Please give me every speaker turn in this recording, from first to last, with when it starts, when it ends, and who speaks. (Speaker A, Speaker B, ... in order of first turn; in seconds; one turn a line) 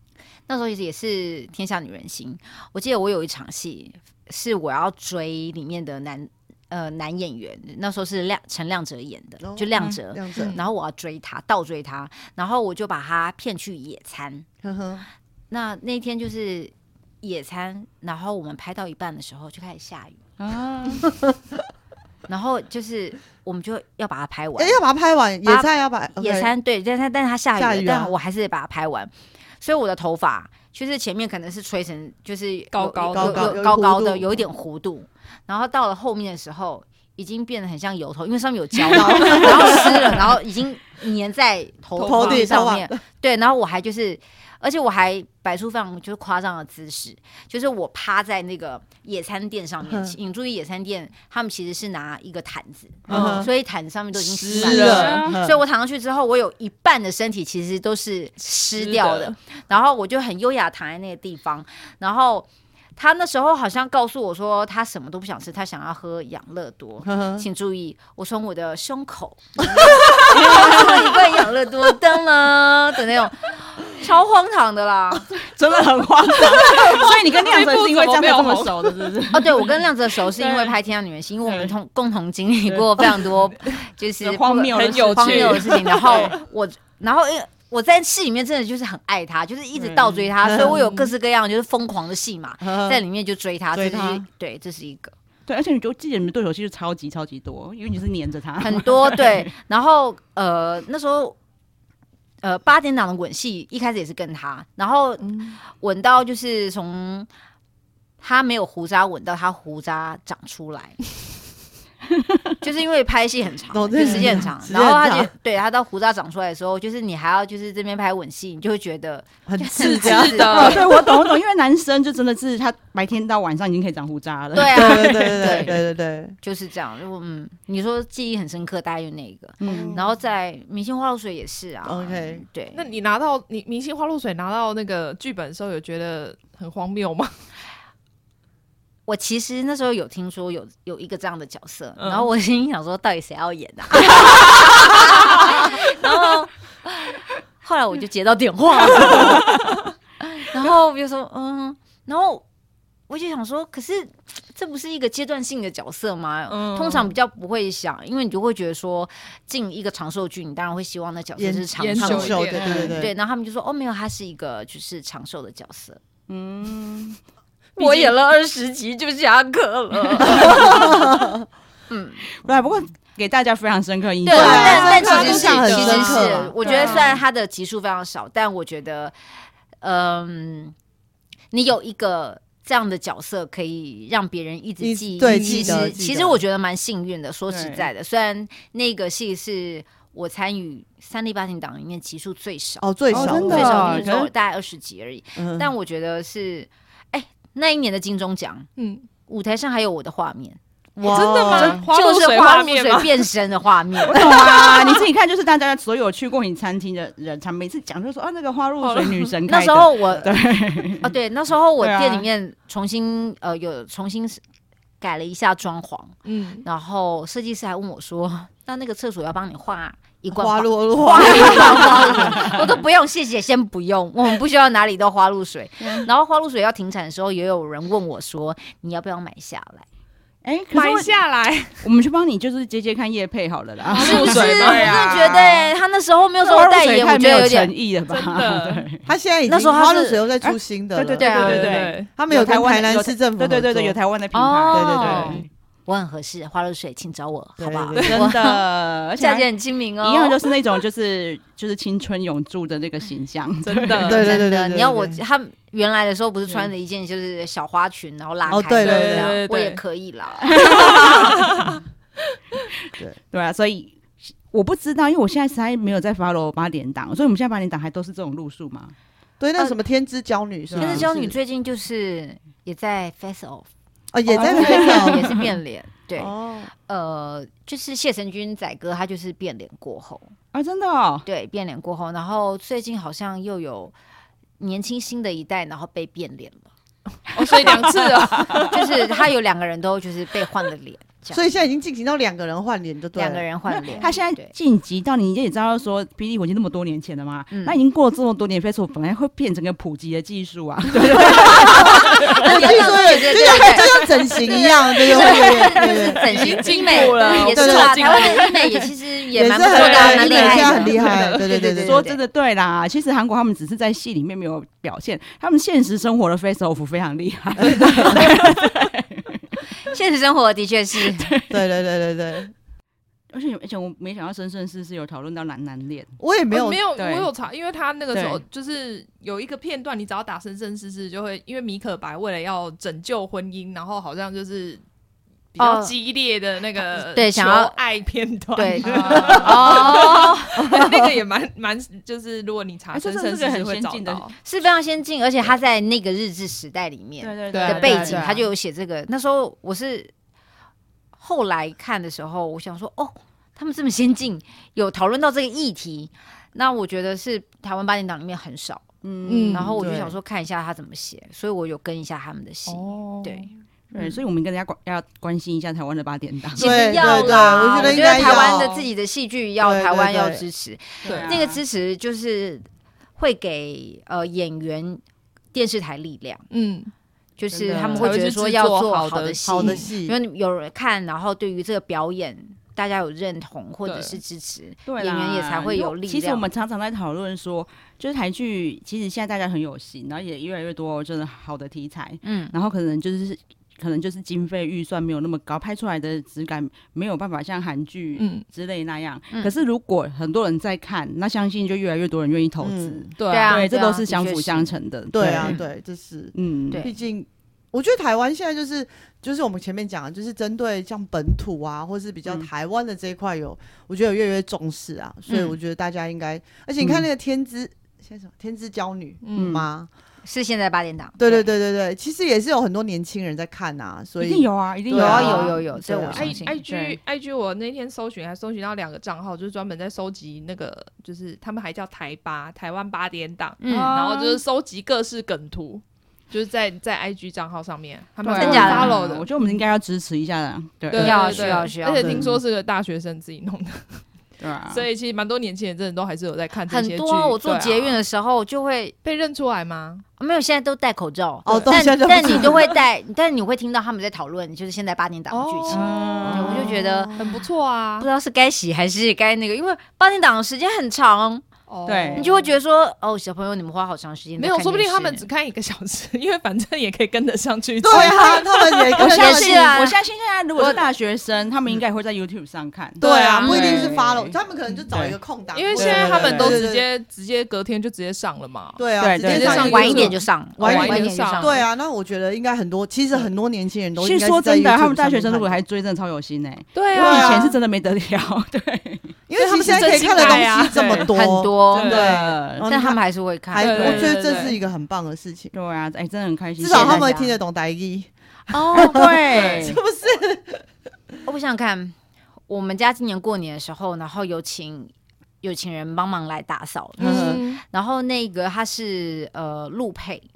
Speaker A: 0.5-14.5
Speaker B: 9.4-10.6
Speaker C: 10.3-10.6
Speaker B: 14.6-15.1
Speaker A: 15.5-20.2
Speaker D: 20.4-21.1
Speaker B: 21.1-21.4
Speaker A: 22.3-24.8
Speaker B: 24.6-26.5
Speaker A: 25.4-75.3
Speaker B: 27.6-28.1
Speaker C: 32.7-33.6
Speaker B: 33.1-34.5
Speaker B: 38.9-40.3
Speaker C: 42.0-42.6
Speaker B: 42.0-43.0
Speaker B: 49.8-50.1
Speaker B: 53.1-53.5
Speaker C: 53.1-53.5
Speaker C: 54.2-55.2
Speaker B: 54.5-55.6
Speaker D: 54.8-55.4
Speaker C: 58.8-59.4
Speaker B: 67.0-67.5
Speaker B: 69.7-70.2
Speaker D: 70.2-71.1
Speaker D: 75.3-80.8
Speaker C: 76.5-79.2
Speaker A: 79.3-95.1
Speaker D: 81.4-81.7
Speaker D: 82.7-83.5
Speaker D: 84.2-86.4
Speaker C: 84.7-86.4
Speaker D: 89.8-90.3
Speaker B: 90.4-90.9
Speaker B: 92.6-93.0
Speaker B: 93.7-94.3
Speaker D: 95.5-99.5
Speaker A: 98.6-101.4
Speaker A: 102.4-107.3
Speaker C: 105.2-105.6
Speaker A: 108.2-111.0
Speaker A: 112.6-120.8
Speaker B: 113.7-115.3
Speaker B: 119.5-120.9
Speaker C: 119.8-120.9
Speaker D: 120.5-125.8
Speaker A: 124.5-125.8
Speaker B: 124.6-126.4
Speaker A: 126.4-132.9
Speaker D: 129.6-130.0
Speaker B: 129.7-130.0
Speaker B: 131.8-132.4
Speaker C: 132.7-137.3
Speaker A: 139.1-152.4
Speaker C: 142.0-142.3
Speaker A: 153.1-166.0
Speaker C: 156.5-157.2
Speaker B: 161.4-163.1
Speaker C: 161.8-162.8
Speaker D: 162.5-163.0
Speaker D: 166.3-167.2
Speaker C: 167.8-168.2
Speaker A: 167.8-171.2
Speaker B: 170.3-171.4
Speaker A: 171.9-172.2
Speaker D: 172.4-175.3
Speaker A: 174.2-179.1
Speaker B: 174.3-177.1
Speaker C: 174.3-177.2
Speaker A: 179.8-180.8
Speaker A: 181.5-198.7
Speaker B: 184.8-186.4
Speaker D: 185.3-185.8
Speaker D: 187.5-187.9
Speaker B: 192.8-194.1
Speaker D: 193.1-194.3
Speaker B: 195.4-195.7
Speaker C: 198.8-199.1
Speaker A: 199.2-205.0
Speaker B: 201.0-201.8
Speaker C: 201.1-203.3
Speaker D: 204.0-211.1
Speaker C: 208.8-209.3
Speaker A: 209.5-210.4
Speaker A: 211.0-214.4
Speaker D: 211.8-212.3
Speaker A: 215.0-216.1
Speaker C: 216.2-216.7
Speaker A: 216.7-229.8
Speaker B: 220.3-222.6
Speaker D: 221.2-222.6
Speaker D: 225.8-226.1
Speaker D: 230.4-231.2
Speaker C: 230.7-231.8
Speaker D: 231.8-235.7
Speaker C: 233.9-235.4
Speaker A: 234.0-237.7
Speaker D: 236.4-239.0
Speaker C: 238.1-238.9
Speaker B: 239.1-244.0
Speaker A: 239.5-240.2
Speaker D: 240.4-245.4
Speaker A: 241.2-241.8
Speaker C: 241.3-242.1
Speaker A: 244.3-248.6
Speaker B: 244.7-245.5
Speaker B: 247.6-248.2
Speaker C: 247.9-248.3
Speaker D: 248.0-249.5
Speaker A: 249.2-250.4
Speaker D: 250.0-254.2
Speaker C: 253.6-254.4
Speaker B: 254.0-255.2
Speaker A: 254.1-261.3
Speaker B: 258.5-259.4
Speaker C: 258.8-259.8
Speaker D: 260.5-261.4
Speaker C: 260.7-261.8
Speaker D: 263.3-268.9
Speaker B: 269.4-271.4
Speaker D: 270.7-271.1
Speaker A: 270.8-273.7
Speaker B: 274.1-275.4
Speaker A: 274.3-280.3
Speaker D: 274.3-275.5
Speaker B: 276.2-276.7
Speaker D: 280.5-281.3
Speaker A: 281.3-283.9
Speaker A: 284.6-286.7
Speaker C: 287.3-289.0
Speaker D: 287.5-288.8
Speaker A: 288.7-291.4
Speaker B: 291.3-293.4
Speaker A: 293.1-294.5
Speaker C: 293.8-294.1
Speaker D: 294.0-303.8
Speaker A: 297.5-297.8
Speaker A: 301.2-312.2
Speaker B: 301.4-306.2
Speaker D: 304.6-307.3
Speaker C: 306.2-308.8
Speaker B: 307.2-308.2
Speaker B: 309.3-312.0
Speaker C: 309.6-311.3
Speaker D: 310.4-319.4
Speaker B: 317.6-318.3
Speaker A: 319.9-321.3
Speaker D: 321.1-321.6
Speaker B: 321.5-322.5
Speaker D: 323.3-326.1
Speaker B: 326.2-326.8
Speaker C: 326.5-334.8
Speaker D: 327.0-327.3
Speaker D: 328.1-328.4
Speaker C: 335.6-344.4
Speaker A: 335.6-335.9
Speaker A: 336.9-337.7
Speaker A: 338.6-340.8
Speaker D: 338.8-340.0
Speaker B: 340.6-341.1
Speaker D: 342.9-344.3
Speaker A: 344.4-350.1
Speaker D: 347.2-348.4
Speaker C: 347.5-348.5
Speaker A: 351.2-358.9
Speaker D: 359.0-359.7
Speaker C: 359.3-359.8
Speaker A: 359.5-363.5
Speaker B: 359.8-360.2
Speaker C: 362.7-364.1
Speaker D: 363.9-366.6
Speaker A: 366.6-372.7
Speaker B: 366.6-368.7
Speaker D: 367.8-368.9
Speaker B: 369.6-370.4
Speaker D: 371.0-371.6
Speaker C: 371.1-371.3
Speaker A: 373.2-375.0
Speaker A: 375.5-376.4
Speaker C: 376.5-376.9
Speaker A: 377.4-386.5
Speaker B: 377.5-378.2
Speaker C: 378.0-379.9
Speaker B: 379.4-380.2
Speaker C: 383.9-384.2
Speaker D: 384.9-405.6
Speaker A: 392.2-392.5
Speaker C: 398.2-398.4
Speaker B: 402.6-403.1
Speaker C: 403.2-403.6
Speaker A: 403.3-404.7
Speaker B: 405.1-419.9
Speaker D: 406.3-406.9
Speaker A: 415.3-415.6
Speaker D: 416.8-417.1
Speaker C: 419.2-419.6
Speaker D: 419.3-419.7
Speaker A: 420.2-421.5
Speaker B: 421.2-426.3
Speaker D: 424.2-425.5
Speaker A: 424.9-426.6
Speaker C: 426.1-439.6
Speaker D: 426.6-427.0
Speaker A: 433.6-433.9
Speaker D: 433.7-434.4
Speaker D: 438.2-441.7
Speaker A: 438.3-439.0
Speaker C: 440.9-444.1
Speaker A: 440.9-442.3
Speaker B: 442.0-442.3
Speaker D: 444.4-444.9
Speaker C: 444.7-448.0
Speaker A: 446.7-448.9
Speaker C: 449.0-450.1
Speaker A: 450.2-457.1
Speaker B: 451.5-452.8
Speaker C: 455.3-456.3
Speaker D: 455.7-456.7
Speaker B: 456.2-457.4
Speaker C: 457.1-458.1
Speaker A: 458.0-461.4
Speaker C: 461.7-462.5
Speaker D: 461.9-462.3
Speaker A: 462.2-465.3
Speaker C: 464.4-469.0
Speaker B: 467.8-469.8
Speaker A: 467.9-468.4
Speaker A: 469.0-470.0
Speaker D: 469.0-474.4
Speaker A: 470.6-470.8
Speaker C: 473.0-473.9
Speaker B: 473.0-476.9
Speaker A: 473.1-473.7
Speaker D: 474.9-475.2
Speaker C: 475.5-481.6
Speaker D: 475.8-476.6
Speaker B: 478.8-485.6
Speaker D: 479.0-480.1
Speaker A: 479.2-481.6
Speaker D: 484.0-489.2
Speaker C: 486.8-487.6
Speaker B: 486.9-487.5
Speaker B: 489.3-495.5
Speaker C: 489.4-491.1
Speaker D: 489.7-491.1
Speaker A: 491.1-494.1
Speaker D: 491.7-492.7
Speaker C: 491.8-492.1
Speaker C: 493.6-494.6
Speaker D: 493.7-494.1
Speaker D: 495.5-497.2
Speaker B: 496.6-498.1
Speaker A: 496.7-497.4
Speaker A: 498.5-499.1
Speaker B: 498.6-500.6
Speaker D: 498.7-499.8
Speaker C: 499.3-499.7
Speaker A: 501.2-501.9
Speaker A: 502.5-510.3
Speaker C: 507.0-507.6
Speaker B: 507.0-507.4